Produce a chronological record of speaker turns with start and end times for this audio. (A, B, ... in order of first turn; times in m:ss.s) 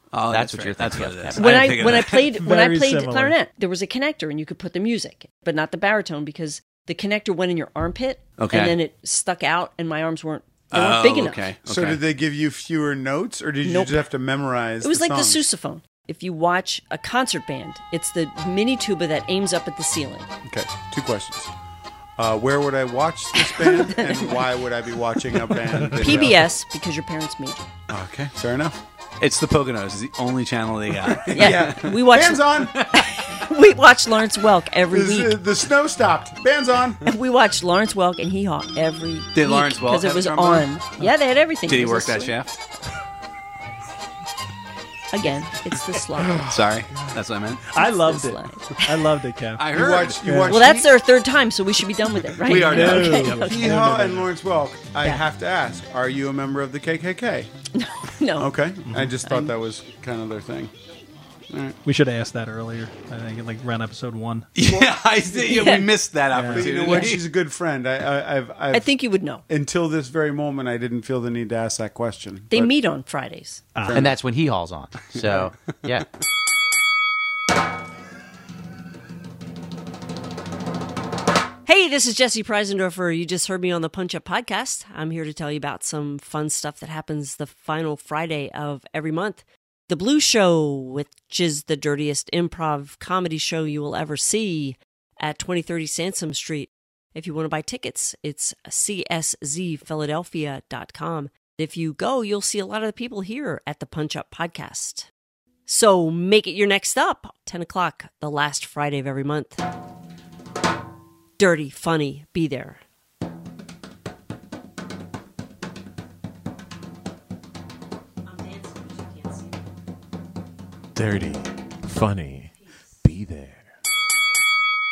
0:00.1-0:02.3 A
0:00.3-0:01.5 B
0:01.3-0:11.5 C
0:02.3-0:03.3 D
0:08.4-0:08.8 A
0:10.7-0:12.0 A
0:11.6-0:15.4 E
0:13.6-0:14.0 C
0:14.8-0:20.3 C
0:20.4-0:21.5 E
0:22.2-0:26.4 E
0:23.4-0:24.3 C
0:25.7-0:26.2 D
0:26.0-0:27.7 C
0:27.9-0:28.8 E
0:29.2-0:31.9 A
0:31.2-0:32.8 E
0:31.3-0:32.4 C
0:32.7-0:33.2 A
0:33.3-0:35.3 C
0:34.9-0:37.0 E
0:37.0-0:42.3 C
0:39.3-0:40.7 A
0:41.7-0:42.6 A
0:45.1-0:46.6 C
0:46.2-0:47.2 E
0:46.4-0:47.7 A
0:47.7-0:49.6 D
0:47.8-0:49.1 C
0:49.6-0:50.2 A
0:49.7-0:50.9 E
0:50.2-0:50.6 D
0:50.5-0:53.7 C
0:52.4-0:53.5 A
0:52.6-0:54.3 D
0:53.4-0:57.5 E
0:57.7-0:58.5 C
0:58.4-1:00.7 E
0:58.9-0:59.1 D
0:59.2-0:59.5 C
1:01.5-1:01.8 E
1:01.8-1:04.5 D
1:04.5-1:07.2 A
1:04.6-1:05.4 E
1:05.4-1:05.9 C
1:06.3-1:06.7 D
1:06.4-1:08.9 E
1:08.7-1:09.4 C
1:09.5-1:12.7 E
1:12.5-1:13.7 C
1:13.8-1:14.2 E
1:13.9-1:16.1 B
1:21.6-1:45.1 C
1:45.7-1:49.6 C
1:51.4-1:52.8 C
1:58.3-1:59.4 C
2:00.9-2:03.7 F